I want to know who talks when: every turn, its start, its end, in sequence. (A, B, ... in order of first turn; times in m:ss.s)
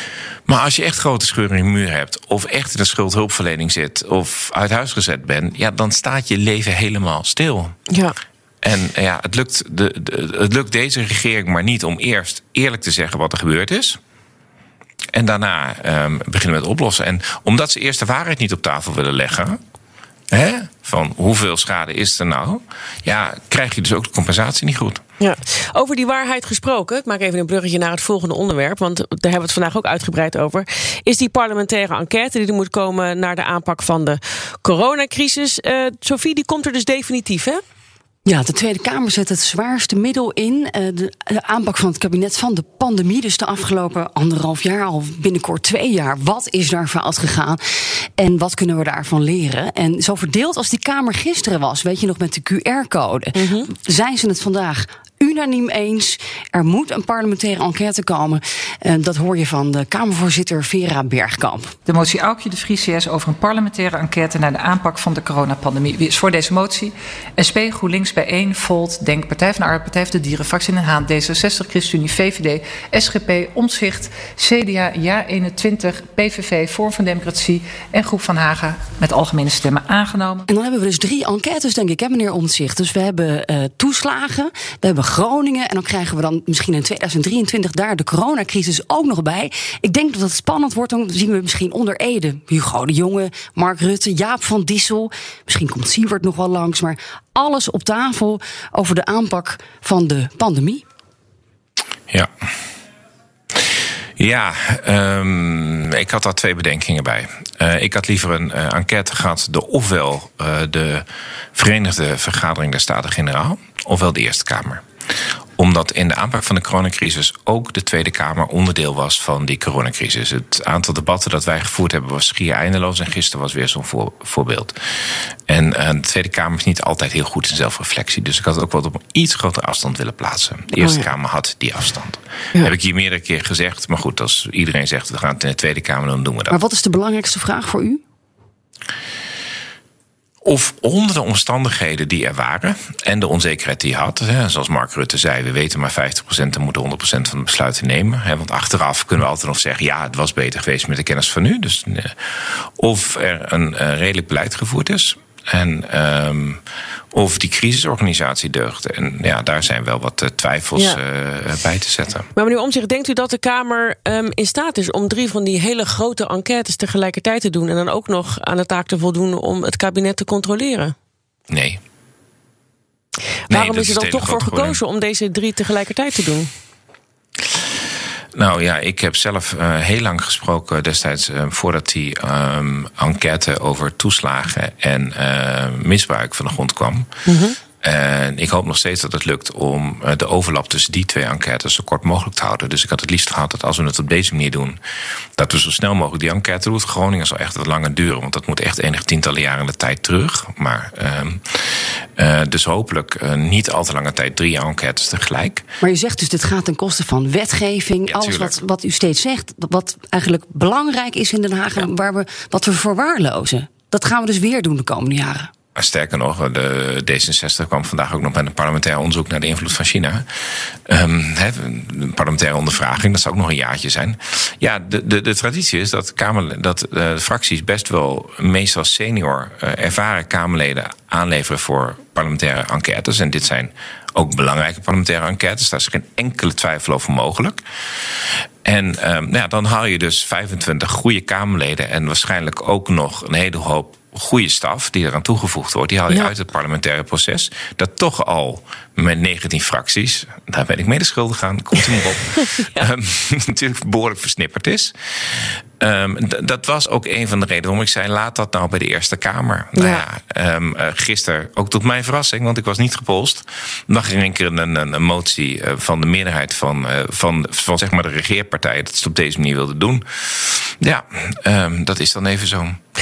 0:00.5-0:07.7 A
0:07.9-0:08.2 B
0:08.6-0:14.0 A
0:15.1-0:19.6 A
0:20.3-0:25.0 A
0:25.2-0:37.6 B
0:38.2-0:47.6 C
0:48.2-1:01.7 C
0:53.4-0:53.7 B
1:01.8-1:20.4 D
1:20.5-1:40.8 C
1:44.2-1:54.8 A
1:55.6-2:04.8 A
2:05.5-2:16.6 A
2:10.8-2:11.0 B
2:16.5-2:18.0 C
2:20.4-2:36.6 A
2:37.1-2:42.3 A
2:40.7-2:41.0 B
2:42.3-2:50.9 B
2:51.5-2:51.8 A
2:53.5-2:56.5 B
2:53.5-2:54.8 A
2:58.3-3:07.1 A
3:07.3-3:07.6 B
3:07.8-3:14.8 A
3:15.4-3:25.6 A
3:25.8-3:35.5 C
3:28.1-3:28.5 A
3:35.8-3:40.2 A
3:40.9-3:57.6 A
3:58.6-4:32.8 A
4:12.6-4:12.9 B
4:19.8-4:20.0 B